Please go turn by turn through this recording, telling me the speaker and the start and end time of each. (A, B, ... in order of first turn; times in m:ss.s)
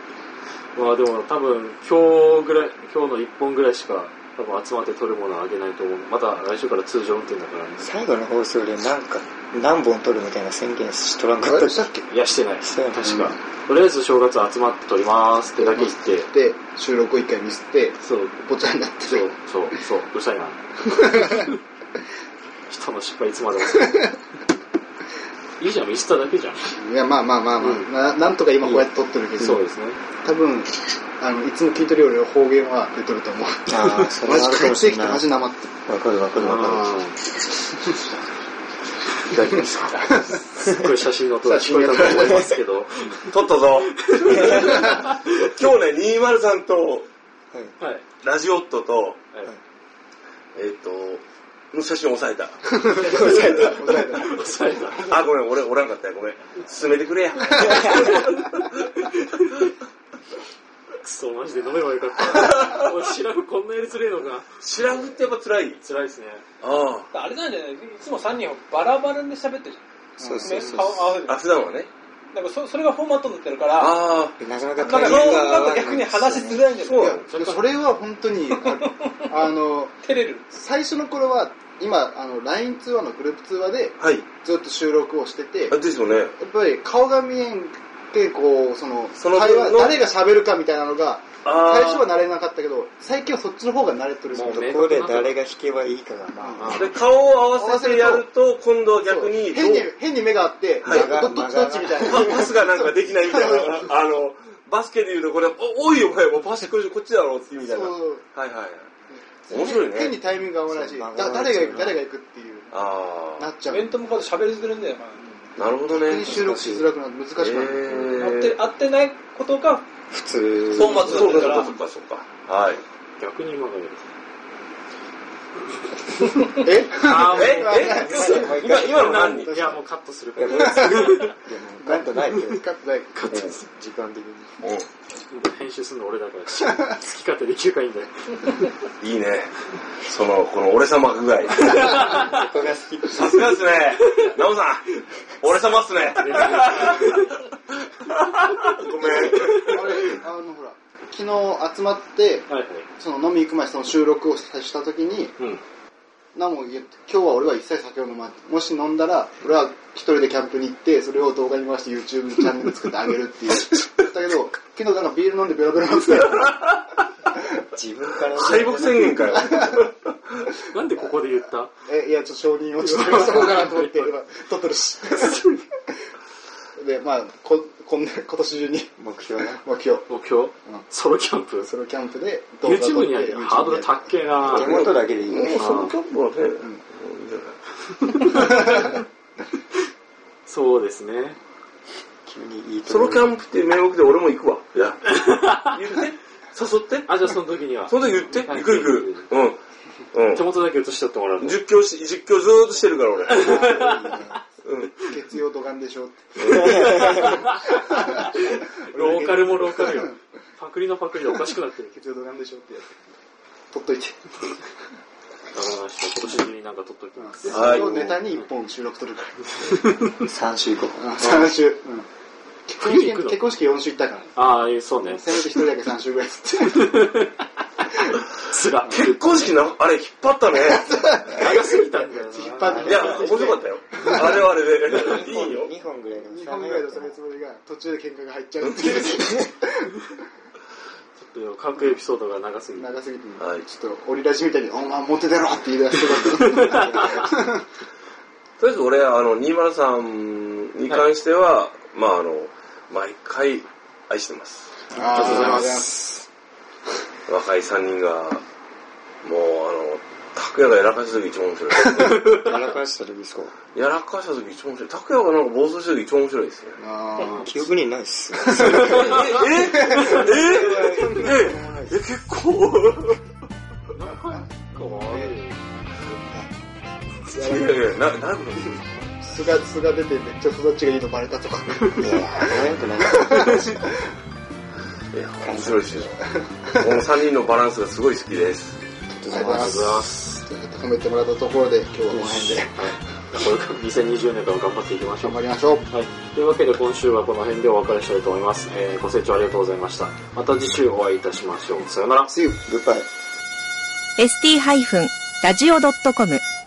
0:00.8-0:07.9 A
0:07.8-0:11.9 B
0:11.4-0:12.1 C
0:12.1-0:16.3 A
0:12.6-0:13.3 B
0:15.6-0:19.3 C
0:18.0-0:18.4 A
0:19.0-0:20.6 A
0:20.9-0:21.5 C
0:22.7-0:24.1 A
0:23.7-0:24.1 C
0:25.6-0:26.7 A
0:26.7-0:29.6 C
0:27.6-0:27.9 A
0:29.4-0:30.0 A
0:30.2-0:35.7 C
0:33.7-0:35.3 B
0:35.9-0:37.0 B
0:36.4-0:37.2 A
0:39.2-0:43.2 A
0:41.4-0:42.6 C
0:42.0-0:42.4 B
0:43.3-0:47.1 D
0:44.3-0:45.0 A
0:47.8-0:48.0 A
0:48.2-0:49.2 D
0:50.6-0:53.5 D
0:52.7-0:55.2 C
0:53.0-0:54.2 B
0:54.2-0:55.1 A
0:55.1-0:58.5 D
0:57.6-0:58.0 C
1:01.0-1:04.5 A
1:02.6-1:02.9 D
1:04.6-1:05.8 D
1:05.8-1:06.4 A
1:06.6-1:07.1 D
1:07.1-1:09.8 E
1:10.2-1:10.7 C
1:10.2-1:11.2 B
1:10.4-1:11.6 E
1:11.3-1:11.9 D
1:12.3-1:14.0 E
1:13.8-1:15.7 D
1:14.4-1:16.7 B
1:14.8-1:17.1 E
1:16.8-1:17.3 D
1:16.9-1:19.9 C
1:17.3-1:17.7 A
1:18.8-1:19.4 E
1:20.0-1:20.4 E
1:20.5-1:25.8 C
1:24.0-1:24.3 D
1:25.7-1:26.3 D
1:26.4-1:34.7 C
1:29.2-1:30.0 D
1:31.4-1:32.1 D
1:34.3-1:35.4 A
1:34.4-1:36.9 B
1:36.4-1:36.8 C
1:36.4-1:37.0 A
1:36.7-1:39.9 D
1:37.5-1:38.3 C
1:39.0-1:43.9 C
1:40.8-1:41.2 D
1:40.8-1:42.5 B
1:42.0-1:48.9 D
1:47.6-1:48.2 C
1:49.1-1:53.9 C
1:49.5-1:50.2 D
1:50.7-1:52.0 B
1:52.7-1:53.5 D
1:53.7-1:55.2 E
1:55.6-1:56.3 D
1:55.8-1:58.1 C
1:56.3-1:56.9 B
1:57.4-1:58.6 D
1:58.1-1:59.9 E
2:00.1-2:01.5 B
2:00.7-2:02.8 D
2:00.7-2:01.7 E
2:03.2-2:04.0 A
2:06.6-2:08.6 C
2:06.9-2:11.3 A
2:07.1-2:09.5 D
2:07.9-2:09.8 B
2:10.4-2:12.6 B
2:10.7-2:11.1 C
2:11.8-2:13.1 C
2:13.1-2:13.7 A
2:13.3-2:13.6 D
2:13.7-2:14.6 B
2:14.6-2:14.9 D
2:15.3-2:18.7 A
2:19.0-2:22.1 D
2:21.6-2:23.6 B
2:21.8-2:22.3 A
2:23.1-2:27.3 D
2:26.2-2:27.3 A
2:28.0-2:29.8 D
2:29.0-2:35.3 C
2:29.3-2:29.8 A
2:32.5-2:32.9 A
2:36.4-2:46.7 C
2:47.7-2:49.4 B
2:48.4-2:50.1 D
2:49.0-2:49.9 C
2:50.7-2:51.7 A
2:51.9-2:55.7 C
2:52.8-2:54.1 A
2:56.8-2:58.9 C
2:59.0-2:59.6 B
2:59.5-3:00.1 C
3:00.1-3:01.7 A
3:01.7-3:04.0 C
3:02.6-3:04.8 A
3:04.4-3:05.6 B
3:04.5-3:07.6 D
3:05.6-3:06.0 A
3:08.2-3:08.9 A
3:08.4-3:08.8 C
3:10.5-3:11.4 A
3:12.3-3:13.3 B
3:12.9-3:17.4 D
3:17.1-3:19.3 A
3:17.9-3:19.6 D
3:20.1-3:20.5 D
3:20.3-3:21.6 A
3:21.4-3:23.7 D
3:23.3-3:24.4 C
3:23.3-3:24.2 A
3:24.6-3:25.1 D
3:24.9-3:30.2 C
3:26.4-3:27.0 D
3:27.0-3:31.9 A
3:31.9-3:32.9 C
3:33.7-3:34.5 C
3:35.5-3:38.4 A
3:37.2-3:39.9 C
3:37.5-3:38.2 D
3:39.7-3:40.0 A
3:40.2-3:41.5 B
3:41.0-3:42.1 C
3:42.7-3:44.4 C
3:42.8-3:43.4 A
3:44.4-3:45.4 A
3:45.1-3:47.2 C
3:46.7-3:47.3 A
3:48.4-3:49.6 A
3:48.9-3:50.9 D
3:50.5-3:54.4 C
3:51.3-3:53.6 A
3:52.7-3:53.2 B
3:52.8-3:55.7 D
3:54.9-3:57.2 B
3:56.2-4:00.1 C
3:58.6-3:59.2 D
4:01.2-4:03.0 A
4:02.8-4:07.6 C
4:03.4-4:03.7 D
4:06.4-4:06.8 A
4:08.6-4:14.7 D
4:14.9-4:16.0 C
4:15.0-4:16.2 B
4:15.1-4:15.9 A
4:17.3-4:18.4 D
4:19.2-4:22.6 D
4:22.0-4:22.4 C
4:22.3-4:23.5 B
4:23.7-4:26.8 D
4:26.8-4:27.6 C
4:27.4-4:32.1 B
4:28.4-4:30.3 C
4:28.6-4:33.2 D
4:33.9-4:35.6 A
4:34.8-4:35.3 C
4:37.3-4:37.9 C
4:37.3-4:38.8 D
4:39.2-4:42.4 C
4:41.9-4:43.6 B
4:43.1-4:43.9 C
4:45.1-4:46.2 D
4:45.4-4:46.1 B
4:46.3-4:47.0 C
4:46.8-4:48.8 D
4:49.2-4:49.9 B
4:49.3-4:52.9 C
4:49.3-4:50.2 A
4:52.1-4:52.6 B
4:52.8-5:02.3 A
4:55.2-4:55.9 C
5:02.3-5:02.6 C
5:02.6-5:03.1 B
5:04.2-5:06.4 F